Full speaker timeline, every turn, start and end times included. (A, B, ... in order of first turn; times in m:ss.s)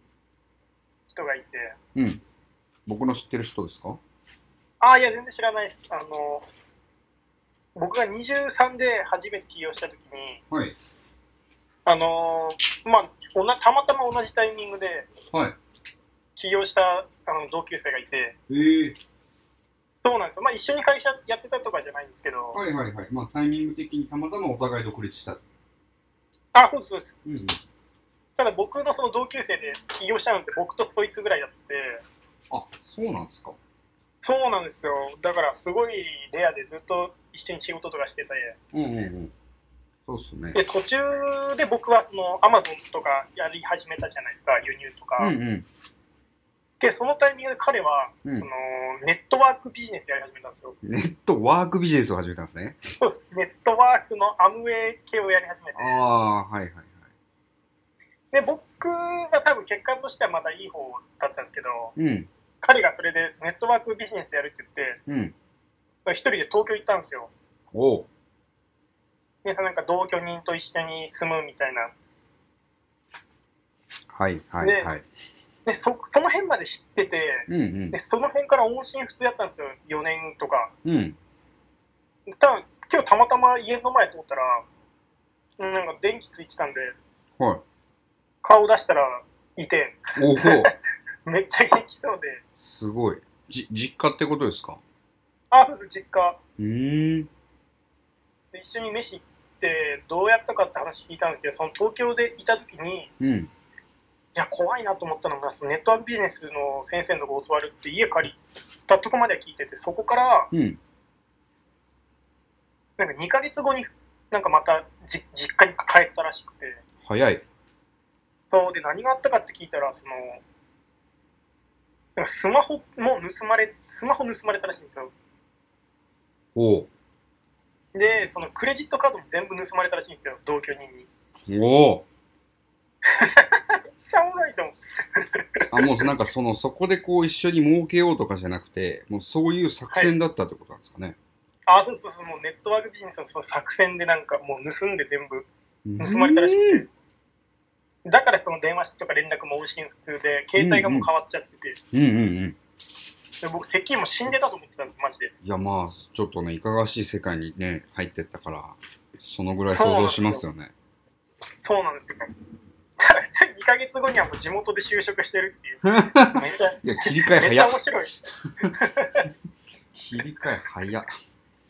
0:01.1-0:01.7 A
0:01.9-0:02.2 B
0:02.8-0:04.0 B
0:04.8-0:06.4 A
0:07.8-0:10.4 A
0:10.5-0:10.8 B
0:11.8-0:15.1 A
0:16.4-0:18.4 A
0:18.5-0:19.0 B
0:20.0-0:22.6 A
0:22.5-0:25.4 B
0:26.5-0:27.2 A
0:27.2-0:27.6 B
0:28.4-0:32.0 A
0:32.5-0:33.6 B
0:34.2-0:38.6 A
0:38.7-0:39.3 B
0:40.1-0:40.6 B
0:40.5-0:45.3 A
0:45.2-0:45.7 B
0:46.8-0:50.8 A
0:50.8-0:52.8 B
0:53.0-0:56.0 A
0:55.7-0:57.0 B
0:58.3-1:01.9 A
1:02.0-1:02.3 B
1:02.6-1:05.0 A
1:05.1-1:05.3 B
1:06.0-1:07.3 A
1:07.7-1:08.1 B
1:09.4-1:11.9 A
1:14.1-1:15.0 B
1:14.6-1:14.9 A
1:15.6-1:20.7 A
1:17.5-1:18.0 B
1:20.8-1:21.2 B
1:22.4-1:24.6 A
1:25.6-1:27.0 A
1:28.4-1:30.7 A
1:30.2-1:30.7 B
1:31.2-1:32.4 A
1:32.6-1:34.8 B
1:35.5-1:36.4 A
1:36.6-1:37.3 B
1:38.5-1:43.1 A
1:43.2-1:43.5 B
1:44.3-1:50.5 A
1:50.5-1:50.8 B
1:53.0-1:56.8 A
1:57.0-1:57.4 B
1:58.5-2:00.4 A
2:02.2-2:05.1 A
2:06.6-2:06.9 B
2:07.9-2:11.1 A
2:11.5-2:12.0 B
2:13.2-2:16.0 A
2:15.7-2:21.2 B
2:21.6-2:26.9 A
2:25.8-2:26.8 B
2:28.0-2:31.8 A
2:30.6-2:31.1 B
2:31.9-2:32.6 B
2:33.4-2:35.3 A
2:35.4-2:40.7 B
2:39.7-2:40.4 A
2:41.6-2:42.3 A
2:43.0-2:48.1 A
2:45.8-2:47.8 B
2:48.7-2:49.2 A
2:49.9-2:51.1 B